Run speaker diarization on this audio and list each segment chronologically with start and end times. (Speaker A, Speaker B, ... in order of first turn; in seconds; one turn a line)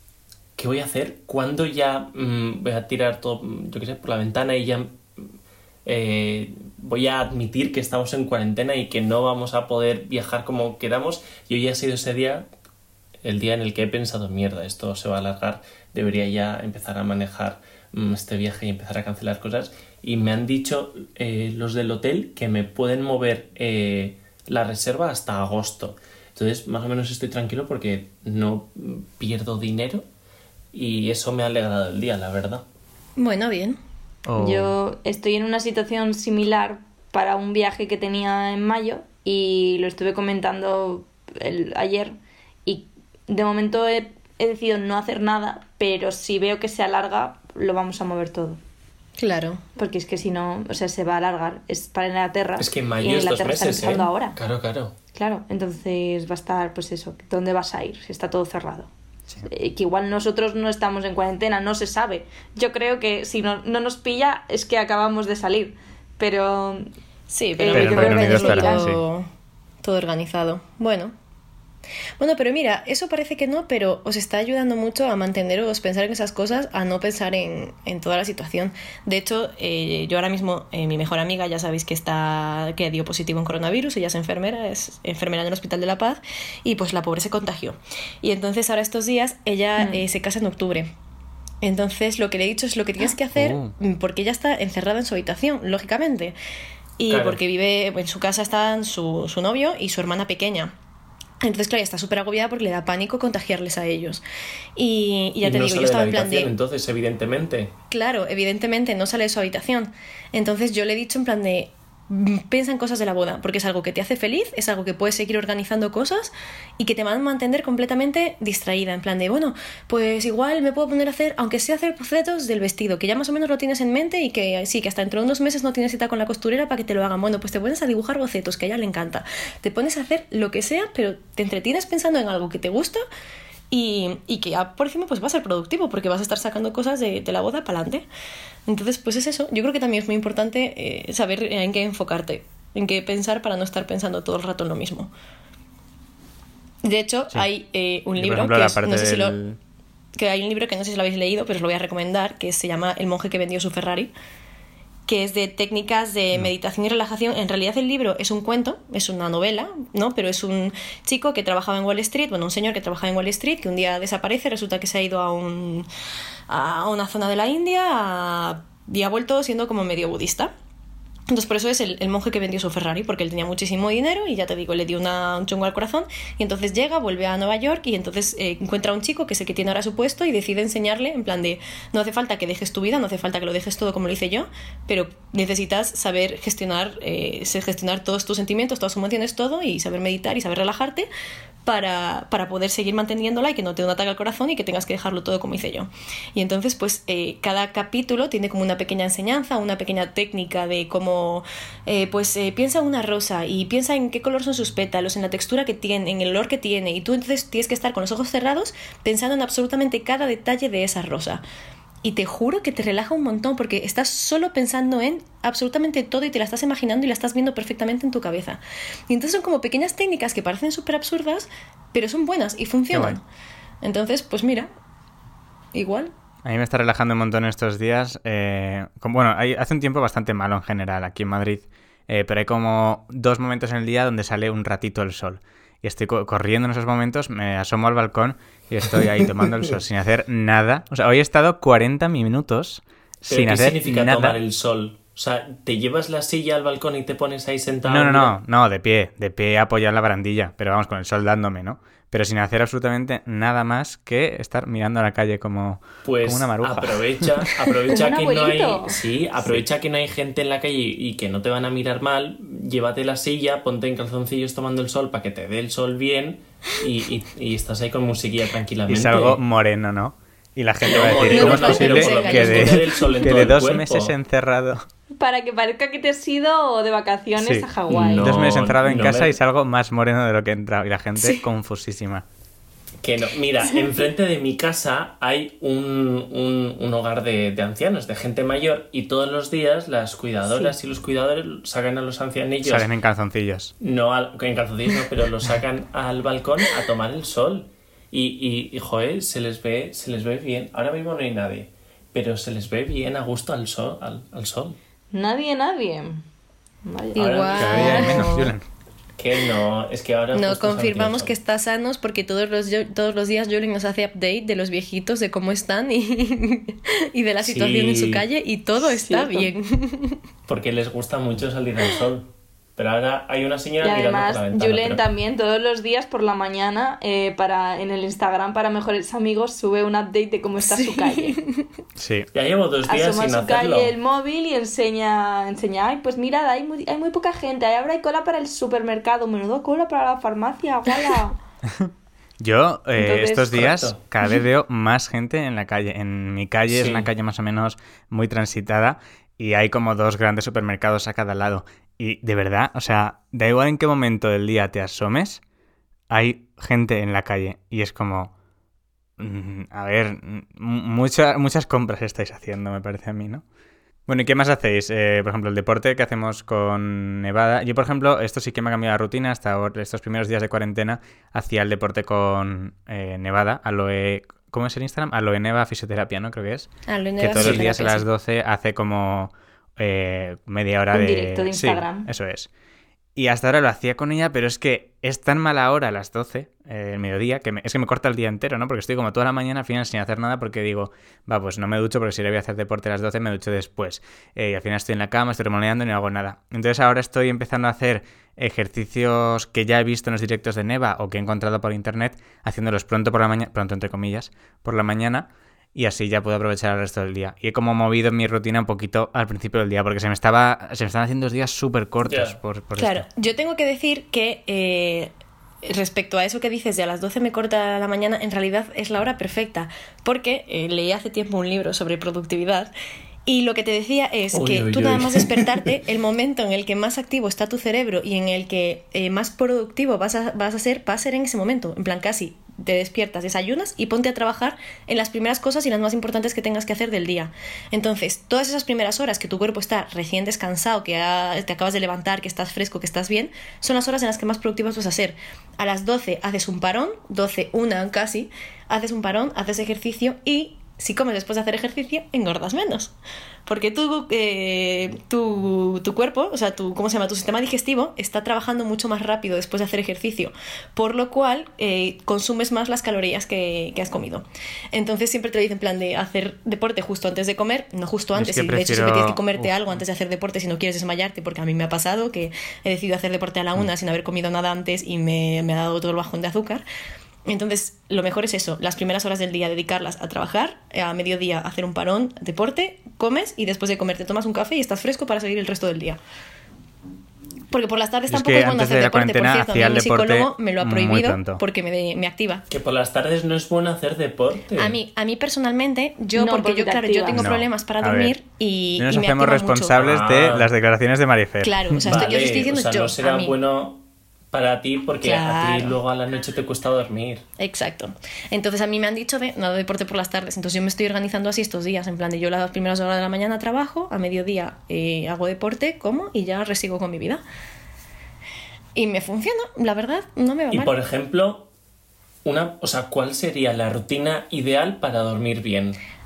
Speaker A: 0.6-5.0
Speaker A: 5.9-12.5
Speaker A: 13.2-30.1
Speaker A: 30.7-32.6
Speaker B: 33.2-33.8
Speaker C: 34.3-34.7
Speaker D: 34.4-42.1
Speaker D: 42.7-48.6
Speaker B: 49.2-49.6
Speaker D: 49.8-54.4
Speaker A: 52.6-55.0
Speaker D: 55.1-58.9
Speaker D: 59.5-66.8
Speaker B: 67.3-69.3
Speaker D: 67.6-68.9
Speaker C: 67.7-69.0
Speaker B: 69.8-71.1
Speaker B: 72.2-90.9
Speaker D: 89.8-90.0
Speaker B: 91.6-96.4
Speaker C: 93.3-93.7
Speaker B: 97.0-100.7
Speaker A: 97.1-97.4
Speaker B: 101.4-104.2
Speaker B: 104.8-106.5
Speaker A: 105.4-107.7
Speaker B: 107.9-133.0
Speaker B: 133.7-138.1
Speaker B: 138.7-145.1
Speaker B: 146.8-149.4
Speaker C: 148.2-149.6
Speaker B: 150.2-154.1
Speaker B: 155.1-165.9
Speaker B: 166.5-170.5
Speaker B: 171.3-191.1
Speaker B: 191.7-211.4
Speaker B: 212.0-223.2
Speaker C: 222.9-223.2
Speaker B: 223.8-224.7
Speaker B: 225.7-226.1
Speaker C: 226.4-244.4
Speaker A: 243.3-248.4
Speaker C: 247.9-257.5
Speaker A: 256.0-269.4
Speaker D: 257.9-259.0
Speaker C: 259.4-259.6
Speaker C: 268.9-274.8
Speaker A: 270.9-274.1
Speaker B: 271.2-273.0
Speaker D: 275.2-278.4
Speaker C: 277.4-277.7
Speaker A: 277.9-279.4
Speaker C: 278.2-282.2
Speaker A: 283.0-292.9
Speaker C: 292.6-293.7
Speaker A: 293.8-304.8
Speaker D: 305.1-306.2
Speaker D: 306.9-308.5
Speaker A: 307.2-308.0
Speaker B: 307.2-308.5
Speaker C: 307.6-308.6
Speaker A: 309.2-311.4
Speaker B: 310.3-320.2
Speaker A: 317.4-318.2
Speaker D: 318.8-319.5
Speaker A: 320.5-325.1
Speaker D: 323.8-331.4
Speaker B: 330.6-331.6
Speaker C: 332.0-332.3
Speaker A: 332.3-333.9
Speaker D: 332.8-341.4
Speaker C: 341.8-355.4
Speaker D: 343.0-343.5
Speaker A: 343.5-344.0
Speaker A: 346.7-347.1
Speaker C: 356.1-358.3
Speaker C: 359.2-363.4
Speaker C: 364.1-376.7
Speaker B: 376.9-378.1
Speaker C: 377.2-382.5
Speaker A: 377.4-377.7
Speaker D: 380.9-382.1
Speaker C: 383.2-413.1
Speaker A: 412.1-412.4
Speaker B: 412.8-415.1
Speaker B: 415.6-422.7
Speaker B: 423.3-452.9
Speaker A: 424.3-425.7
Speaker B: 453.5-476.6
Speaker C: 468.1-469.8
Speaker B: 477.3-486.0
Speaker B: 487.5-492.4
Speaker C: 488.1-491.4
Speaker A: 492.5-494.8
Speaker B: 494.6-499.8
Speaker D: 496.1-497.2
Speaker C: 497.1-498.2
Speaker C: 498.8-501.9
Speaker A: 499.8-500.5
Speaker B: 501.4-503.4
Speaker A: 501.8-507.2
Speaker B: 505.0-505.8
Speaker B: 507.4-517.2
Speaker B: 518.8-520.7
Speaker A: 520.5-521.5
Speaker A: 522.2-525.8